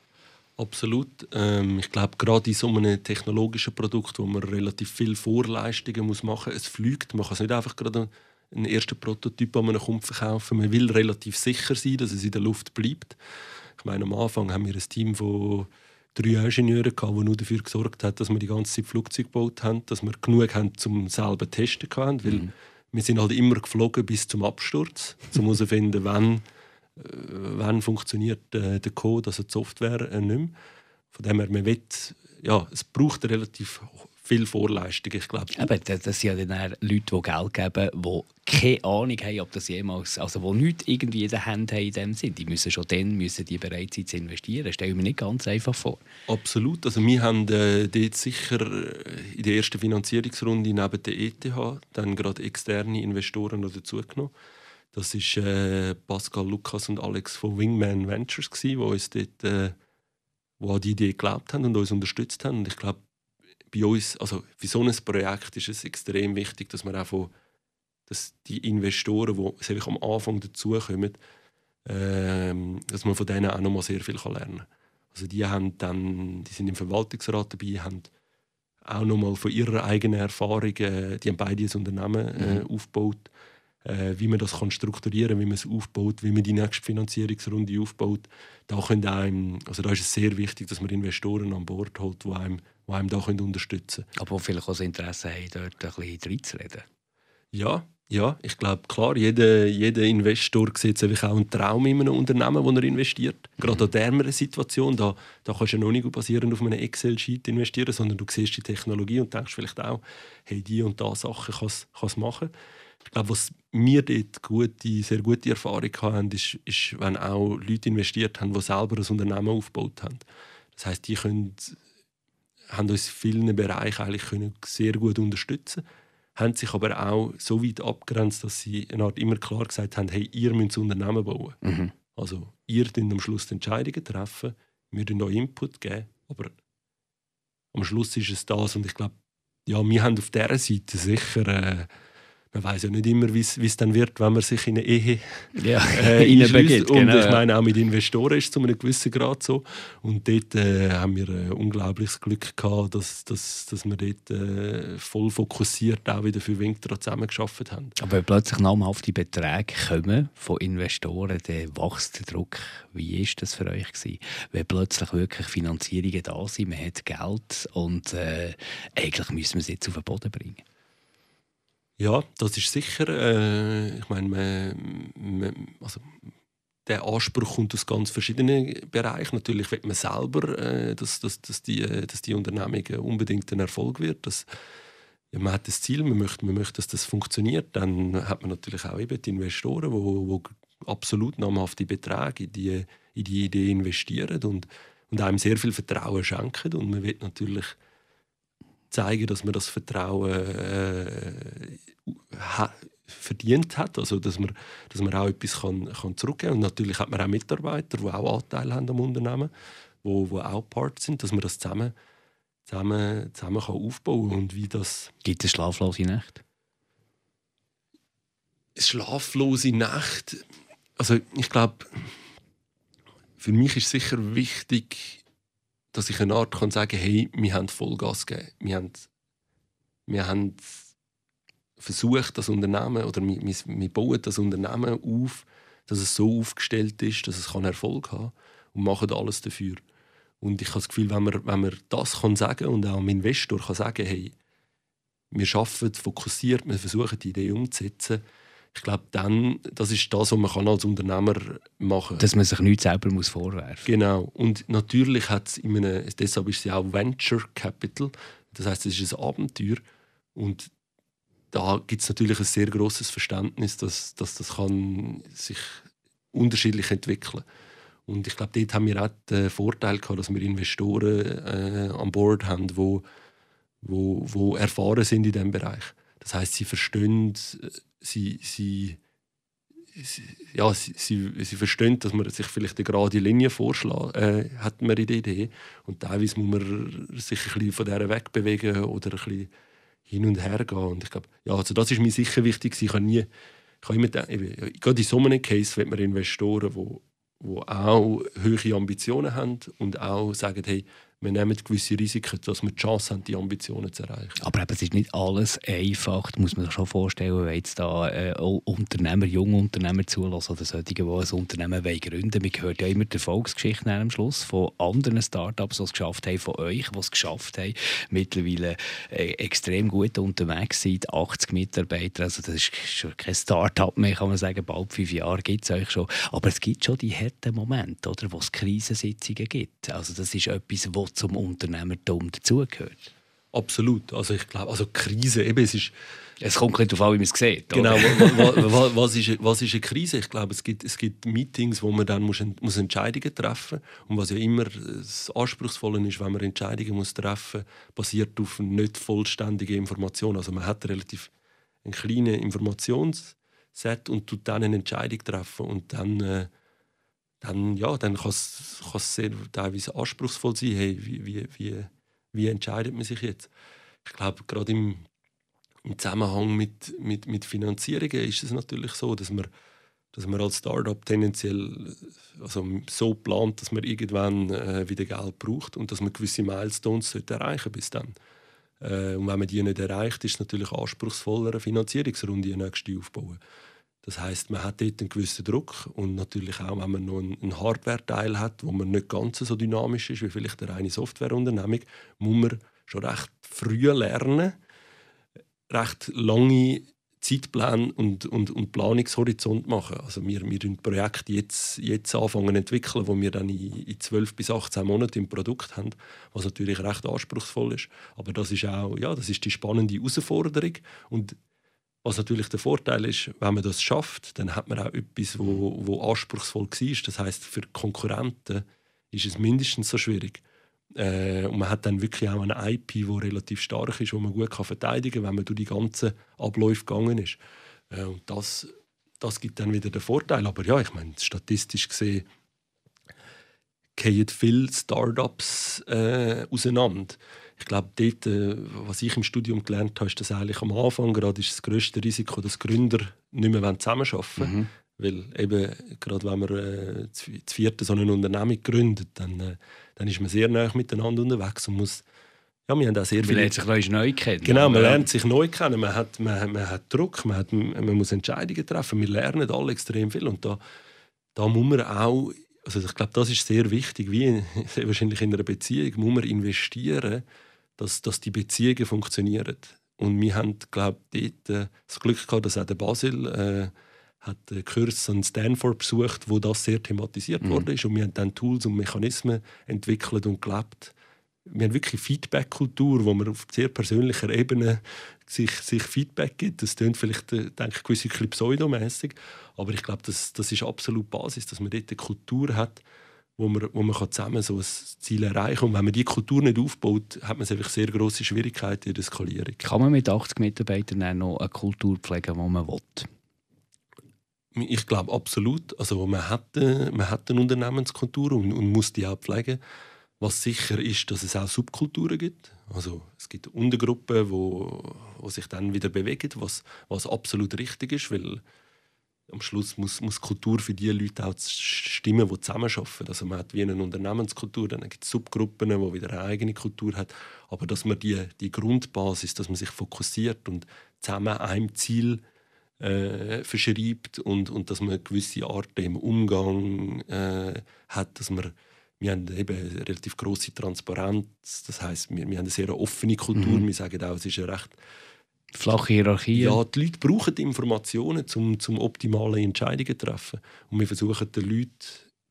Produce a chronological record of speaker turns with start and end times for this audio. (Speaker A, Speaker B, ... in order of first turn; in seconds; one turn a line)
Speaker A: 0.6-13.2
Speaker A: 13.8-26.4
Speaker A: 27.0-30.5
Speaker A: 31.1-35.7
Speaker B: 35.5-46.0
Speaker A: 46.3-54.3
Speaker A: 54.9-59.8
Speaker A: 60.6-63.0
Speaker A: 63.7-67.3
Speaker A: 68.1-71.2
Speaker A: 71.8-78.1
Speaker A: 78.8-83.3
Speaker B: 82.4-82.6
Speaker A: 83.8-94.1
Speaker B: 94.2-96.8
Speaker A: 97.5-112.5
Speaker A: 113.1-120.2
Speaker A: 120.8-121.8
Speaker A: 122.7-125.8
Speaker A: 126.3-131.6
Speaker B: 131.6-131.9
Speaker A: 132.1-136.5
Speaker A: 137.7-139.1
Speaker A: 139.7-141.9
Speaker A: 142.5-157.9
Speaker B: 145.5-147.4
Speaker B: 158.0-170.6
Speaker A: 172.0-176.1
Speaker A: 176.8-184.5
Speaker A: 185.3-197.7
Speaker A: 198.9-209.5
Speaker A: 210.0-211.9
Speaker A: 212.7-215.1
Speaker B: 215.2-216.4
Speaker A: 218.8-220.4
Speaker A: 221.0-222.2
Speaker A: 223.4-225.2
Speaker A: 225.9-229.1
Speaker A: 230.1-230.8
Speaker A: 231.8-239.8
Speaker A: 240.4-244.3
Speaker A: 245.3-248.2
Speaker A: 248.7-252.2
Speaker B: 252.2-253.9
Speaker A: 253.8-259.8
Speaker A: 260.3-260.7
Speaker A: 261.5-267.4
Speaker A: 268.1-273.0
Speaker A: 273.8-279.0
Speaker A: 279.9-289.5
Speaker A: 290.1-293.3
Speaker A: 293.8-304.4
Speaker B: 304.4-333.1
Speaker A: 333.5-335.9
Speaker B: 336.4-338.6
Speaker A: 337.7-351.3
Speaker A: 351.8-356.5
Speaker A: 357.4-363.5
Speaker A: 364.0-365.0
Speaker A: 365.8-369.5
Speaker A: 370.1-378.1
Speaker A: 378.8-383.4
Speaker A: 384.0-394.6
Speaker A: 395.7-411.4
Speaker A: 412.0-420.4
Speaker A: 420.9-427.4
Speaker A: 427.9-432.2
Speaker A: 433.9-452.0
Speaker B: 444.4-444.7
Speaker A: 452.7-453.5
Speaker B: 453.2-455.1
Speaker A: 454.4-460.6
Speaker A: 461.4-467.2
Speaker A: 467.8-480.9
Speaker A: 481.4-492.8
Speaker A: 493.4-499.6
Speaker B: 499.6-503.1
Speaker A: 504.5-509.6
Speaker A: 510.2-518.4
Speaker A: 519.3-532.2
Speaker A: 532.8-544.8
Speaker B: 543.3-543.6
Speaker B: 545.5-546.6
Speaker A: 546.3-552.0